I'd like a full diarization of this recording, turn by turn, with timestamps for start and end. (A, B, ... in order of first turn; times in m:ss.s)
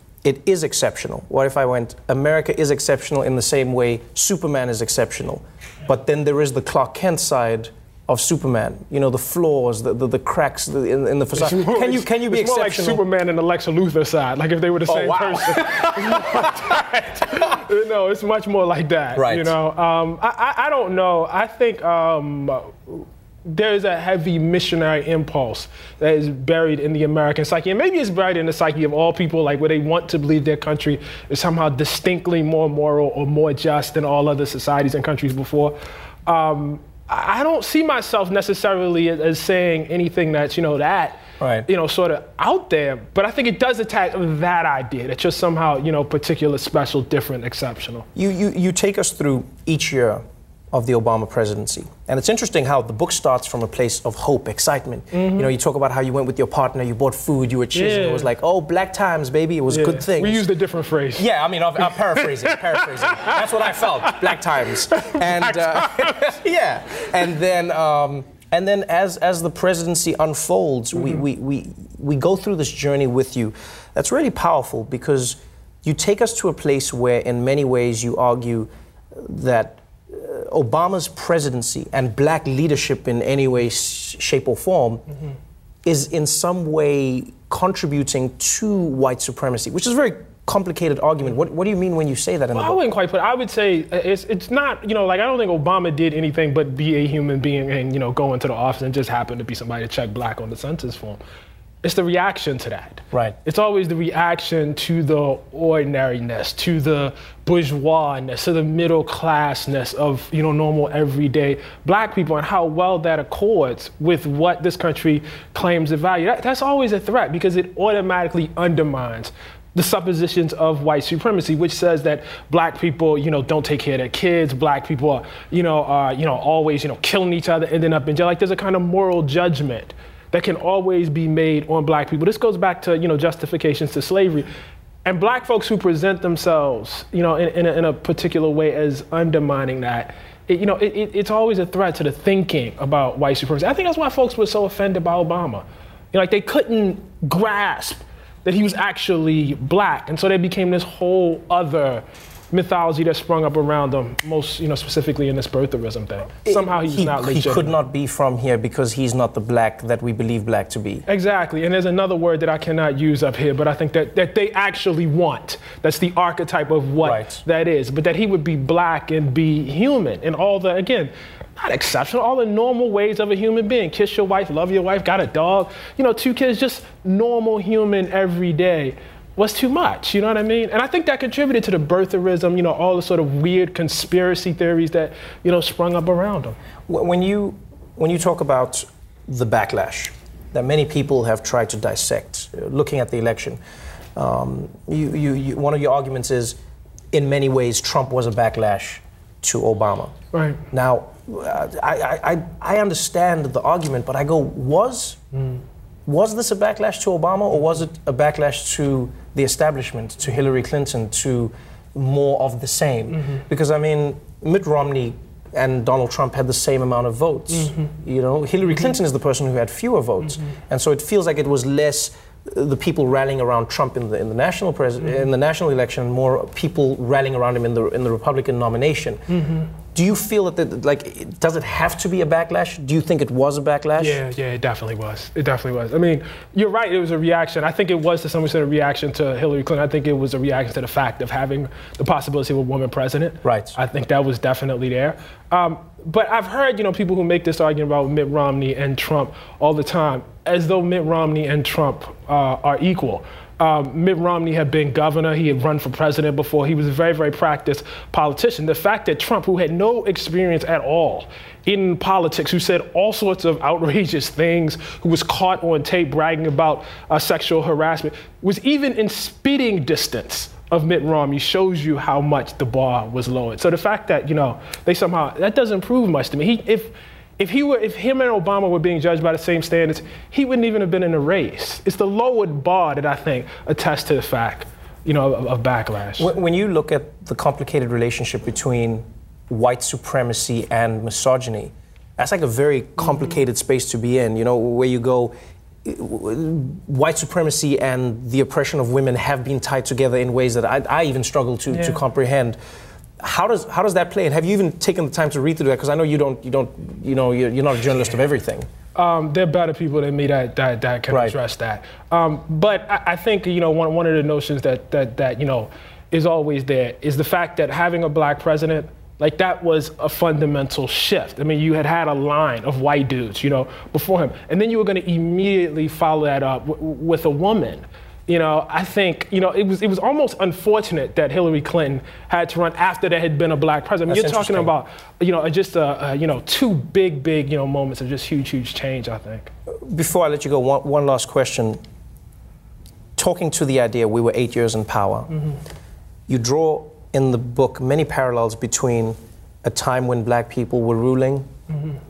0:00.2-0:13.0 A
0:11.3-0:48.0 B
0:14.9-0:16.4 A
0:19.2-0:19.5 A
0:41.4-0:41.6 A
0:48.1-1:00.4 A
0:55.1-0:55.5 B
0:57.7-0:58.3 B
0:59.7-1:01.3 B
1:01.2-1:25.0 A
1:02.8-1:03.1 B
1:04.9-1:06.2 B
1:25.8-1:32.8 A
1:32.5-1:41.2 B
1:41.8-2:14.5 B
2:15.0-2:37.8 B
2:36.4-2:41.0 A
2:41.1-3:06.6 B
2:47.0-2:47.4 A
3:06.9-3:13.6 A
3:14.2-3:16.6 A
3:17.1-3:20.1 A
3:20.3-3:20.6 B
3:20.7-3:25.2 A
3:26.0-3:49.2 A
3:37.5-3:37.9 B
3:49.3-3:49.7 B
3:49.9-3:54.2 A
3:54.0-4:46.3 B
4:03.4-4:03.8 A
4:46.2-5:02.6 A
5:01.7-5:02.0 B
5:03.2-5:08.7 A
5:08.9-5:39.5 B
5:11.1-5:11.4 A
5:34.1-5:34.7 A
5:39.9-5:41.8 A
5:43.2-5:45.3 A
5:46.3-5:51.5 A